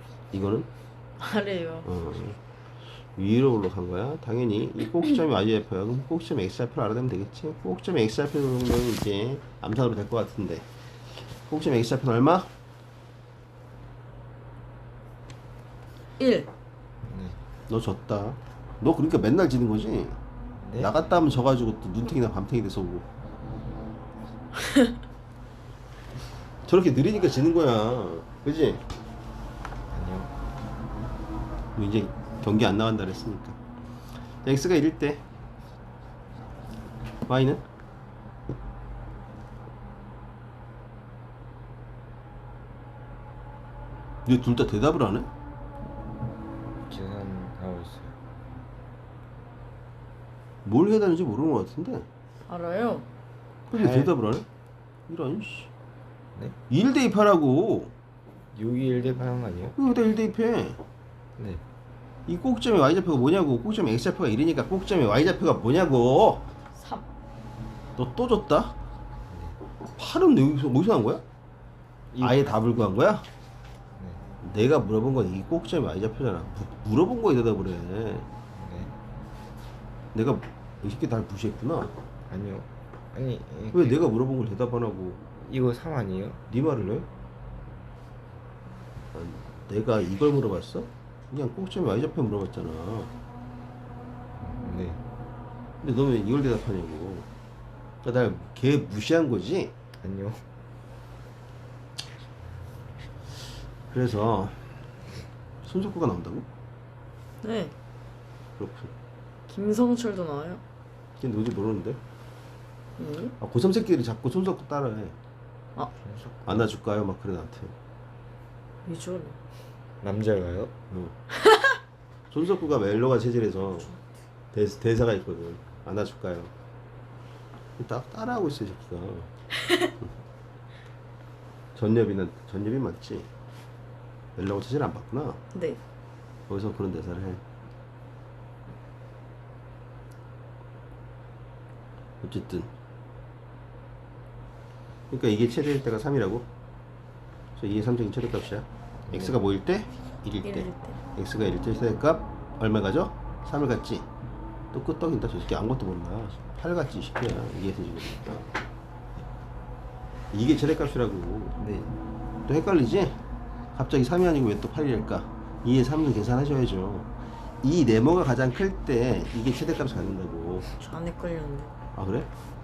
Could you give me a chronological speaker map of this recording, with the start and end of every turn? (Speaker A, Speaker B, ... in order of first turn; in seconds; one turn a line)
Speaker A: 0.3-0.7
Speaker B: 1.2-1.9
Speaker A: 1.8-2.4
Speaker A: 3.2-10.7
Speaker A: 11.2-12.5
Speaker B: 16.2-16.5
Speaker C: 17.1-17.4
Speaker A: 17.7-20.2
Speaker C: 20.6-20.9
Speaker A: 20.8-23.0
Speaker A: 26.6-28.8
Speaker C: 29.9-30.3
Speaker A: 31.8-33.6
Speaker A: 34.4-35.2
Speaker A: 37.3-37.6
Speaker A: 44.2-45.3
Speaker C: 46.9-48.1
Speaker A: 50.6-52.1
Speaker B: 52.5-53.1
Speaker A: 53.7-54.5
Speaker C: 53.7-54.1
Speaker A: 55.1-55.7
Speaker A: 56.7-57.9
Speaker C: 58.5-59.8
Speaker A: 59.8-60.8
Speaker C: 61.4-61.6
Speaker A: 62.3-66.5
Speaker B: 66.8-67.0
Speaker A: 68.0-68.7
Speaker C: 69.3-69.6
Speaker A: 70.0-71.2
Speaker C: 72.1-72.6
Speaker A: 72.2-73.2
Speaker C: 74.0-74.2
Speaker A: 74.4-78.3
Speaker C: 78.5-78.9
Speaker A: 80.1-81.9
Speaker C: 82.3-84.1
Speaker A: 83.7-85.2
Speaker C: 85.3-86.4
Speaker A: 86.5-87.1
Speaker A: 89.1-93.1
Speaker C: 94.4-95.0
Speaker A: 95.8-97.3
Speaker A: 98.0-99.7
Speaker C: 100.0-100.4
Speaker A: 103.9-104.8
Speaker A: 105.6-106.5
Speaker B: 107.4-107.7
Speaker A: 108.6-108.9
Speaker B: 109.5-110.6
Speaker A: 111.2-112.0
Speaker B: 113.0-113.3
Speaker A: 113.4-115.2
Speaker C: 116.0-116.7
Speaker A: 116.5-117.7
Speaker B: 118.8-119.4
Speaker C: 120.0-120.7
Speaker B: 121.3-121.8
Speaker A: 122.3-124.0
Speaker A: 124.5-126.5
Speaker A: 127.8-129.3
Speaker A: 131.7-133.3
Speaker A: 134.3-135.4
Speaker B: 135.5-135.8
Speaker A: 136.5-137.4
Speaker A: 142.2-142.7
Speaker A: 145.1-146.5
Speaker A: 147.6-154.1
Speaker C: 149.1-149.4
Speaker B: 150.4-151.0
Speaker A: 154.7-158.5
Speaker A: 160.3-161.6
Speaker C: 161.6-161.9
Speaker A: 162.5-163.2
Speaker A: 163.7-167.1
Speaker A: 167.6-170.7
Speaker B: 170.7-171.7
Speaker A: 172.0-172.3